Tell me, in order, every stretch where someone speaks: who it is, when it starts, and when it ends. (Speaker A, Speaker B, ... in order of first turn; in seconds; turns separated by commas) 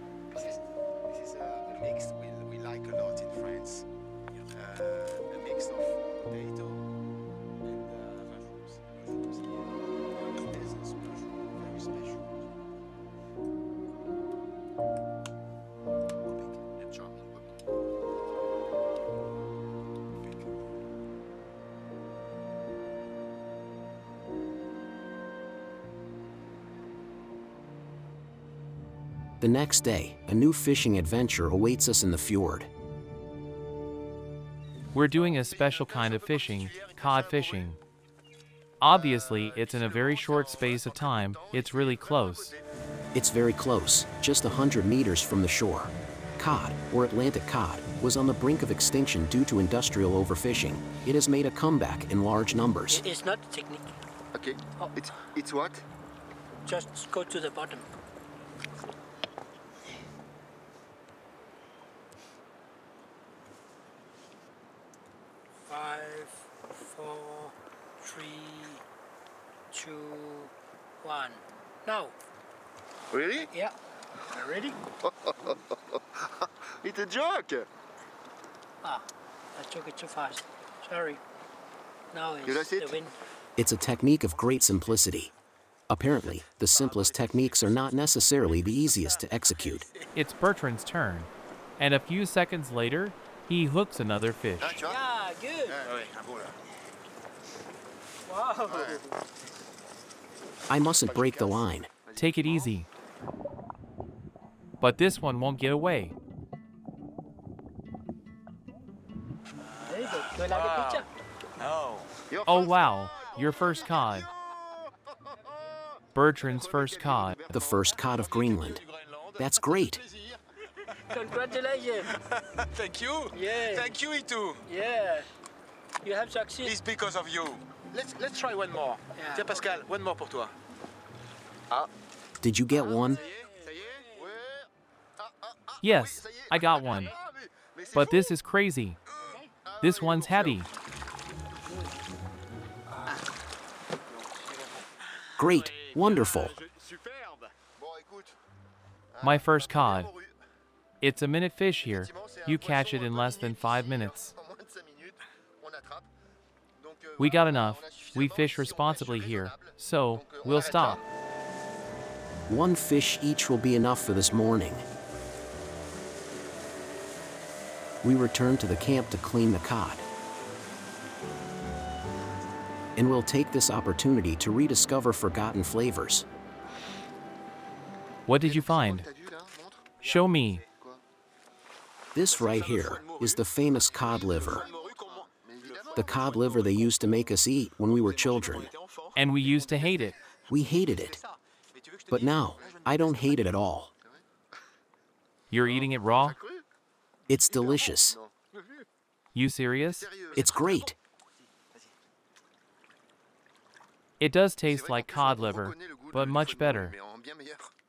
Speaker A: 0.3-3.9, Speaker A: 4.5-6.8, Speaker A: 7.6-12.4, Speaker A: 16.2-16.6, Speaker B: 16.8-17.5, Speaker C: 29.4-32.7, Speaker D: 34.9-37.8, Speaker A: 35.5-37.7, Speaker D: 38.8-42.5, Speaker A: 39.2-39.8, Speaker B: 40.0-41.8, Speaker A: 41.8-42.6, Speaker C: 43.1-53.0, Speaker E: 52.9-54.0, Speaker B: 54.3-55.8, Speaker E: 56.6-57.9, Speaker E: 65.7-68.8, Speaker E: 69.7-70.5, Speaker E: 71.0-72.1, Speaker B: 73.1-73.5, Speaker E: 74.3-74.8, Speaker B: 75.0-77.7, Speaker E: 78.8-81.2, Speaker E: 82.1-83.1, Speaker B: 82.4-83.0, Speaker C: 83.6-85.3, Speaker C: 85.9-89.9, Speaker A: 86.7-87.7, Speaker A: 89.6-89.9, Speaker D: 90.1-94.8, Speaker B: 94.6-95.1, Speaker E: 94.8-95.9, Speaker A: 95.7-96.6, Speaker E: 98.3-99.2, Speaker B: 98.7-99.0, Speaker C: 100.7-101.9, Speaker A: 101.0-101.6, Speaker B: 102.0-102.7, Speaker D: 102.2-102.9, Speaker D: 104.8-106.1, Speaker A: 109.6-111.0, Speaker E: 109.9-111.1, Speaker A: 111.6-112.1, Speaker B: 112.3-112.9, Speaker D: 112.5-114.3, Speaker D: 116.1-117.4, Speaker A: 117.2-120.4, Speaker C: 117.5-118.8, Speaker C: 119.3-120.0, Speaker E: 121.1-122.1, Speaker A: 122.0-124.6, Speaker E: 123.3-124.0, Speaker E: 124.6-125.3, Speaker E: 126.0-126.8, Speaker A: 126.6-130.5, Speaker E: 129.1-129.7, Speaker C: 132.4-133.2, Speaker A: 133.0-134.0, Speaker B: 134.1-134.7, Speaker B: 135.2-137.4, Speaker D: 135.8-137.1, Speaker D: 137.9-139.0, Speaker B: 139.7-140.7, Speaker D: 139.8-140.7, Speaker B: 144.1-144.8, Speaker C: 145.4-146.5, Speaker A: 145.9-147.5, Speaker B: 147.8-148.3, Speaker B: 149.1-150.3, Speaker D: 149.2-150.1, Speaker D: 151.0-154.3, Speaker B: 151.8-156.1, Speaker B: 156.8-161.0, Speaker D: 157.2-161.0, Speaker C: 162.5-164.8, Speaker C: 168.0-170.0, Speaker C: 172.9-176.2, Speaker D: 178.3-179.1, Speaker B: 178.4-181.0, Speaker D: 180.0-180.6, Speaker C: 182.1-184.7, Speaker A: 182.2-187.3, Speaker B: 184.3-186.4, Speaker C: 185.9-188.7, Speaker A: 187.9-190.2, Speaker D: 189.1-190.1, Speaker C: 190.5-191.2, Speaker A: 190.9-193.2, Speaker C: 192.1-193.9, Speaker B: 192.6-193.4, Speaker D: 195.5-196.4, Speaker B: 195.6-196.6, Speaker C: 197.3-198.2, Speaker B: 197.4-198.3, Speaker A: 198.5-198.8, Speaker D: 199.3-200.1, Speaker B: 199.9-200.9, Speaker C: 200.3-200.9, Speaker D: 204.2-206.9, Speaker B: 204.6-207.7